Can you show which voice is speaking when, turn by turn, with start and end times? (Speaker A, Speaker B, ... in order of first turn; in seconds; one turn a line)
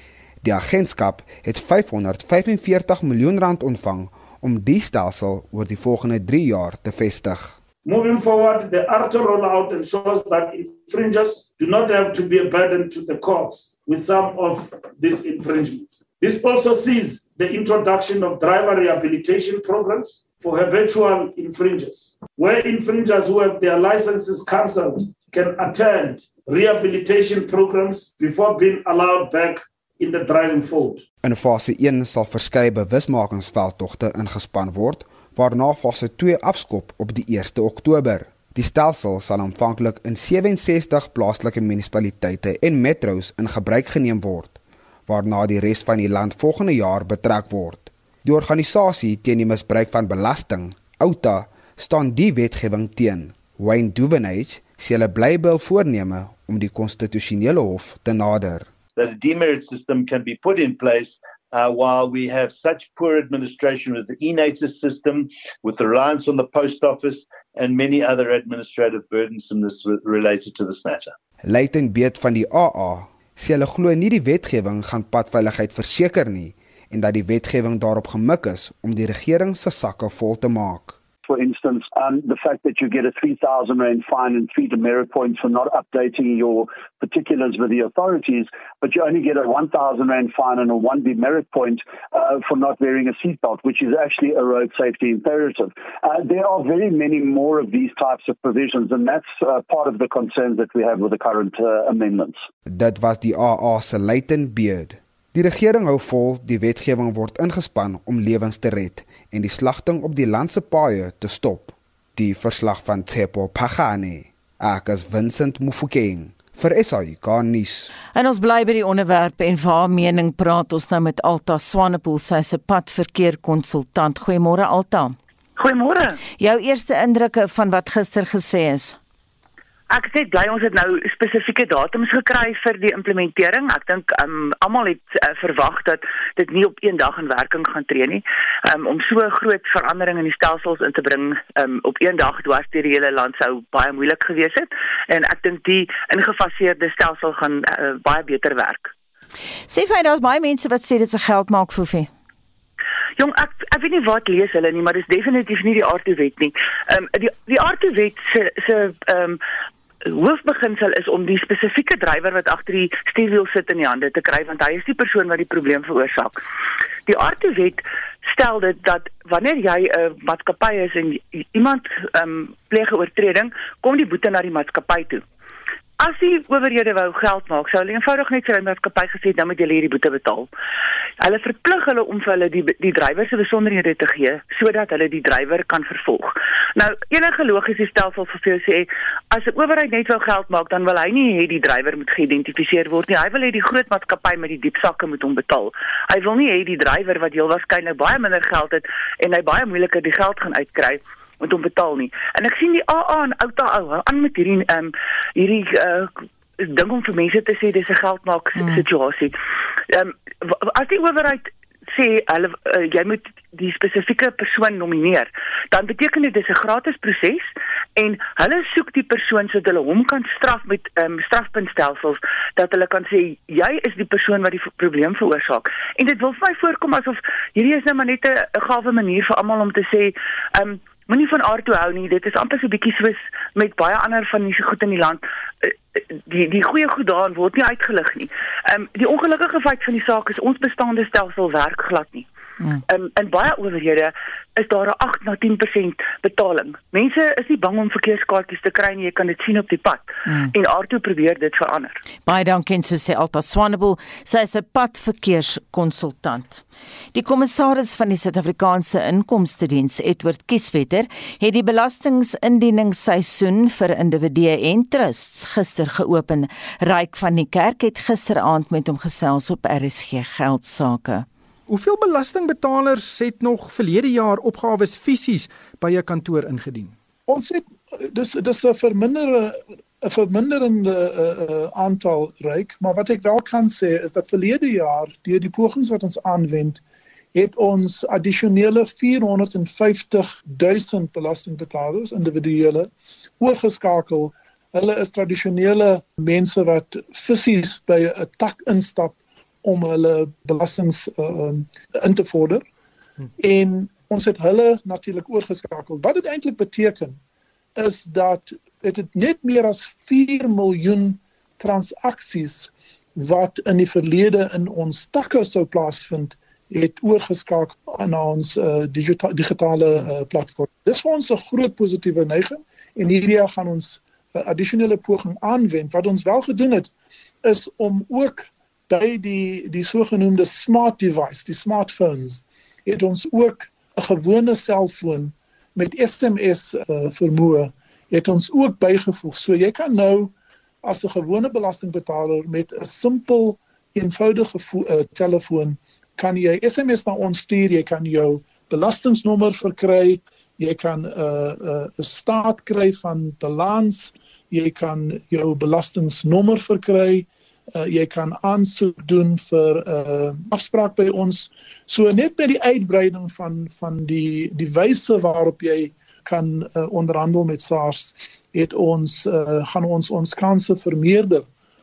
Speaker A: 0.4-7.6
Speaker B: 7.8-31.0
Speaker A: 31.2-58.7
Speaker C: 59.0-71.1
Speaker A: 71.4-81.0
Speaker D: 81.3-102.4
Speaker A: 102.7-117.9
Speaker E: 118.1-125.2
Speaker F: 125.6-126.2
Speaker E: 126.4-129.0
Speaker F: 129.9-148.9
Speaker E: 149.7-152.1
Speaker F: 153.2-159.4
Speaker F: 160.1-166.4
Speaker F: 167.1-175.2
Speaker F: 176.0-180.5
Speaker F: 181.2-209.4
Speaker F: 209.9-242.3
Speaker F: 242.9-252.0
Speaker E: 252.2-271.3
Speaker G: 271.7-276.9
Speaker H: 277.3-286.8
Speaker H: 287.3-302.6
Speaker H: 303.4-307.2
Speaker H: 307.8-326.9
Speaker H: 327.4-371.5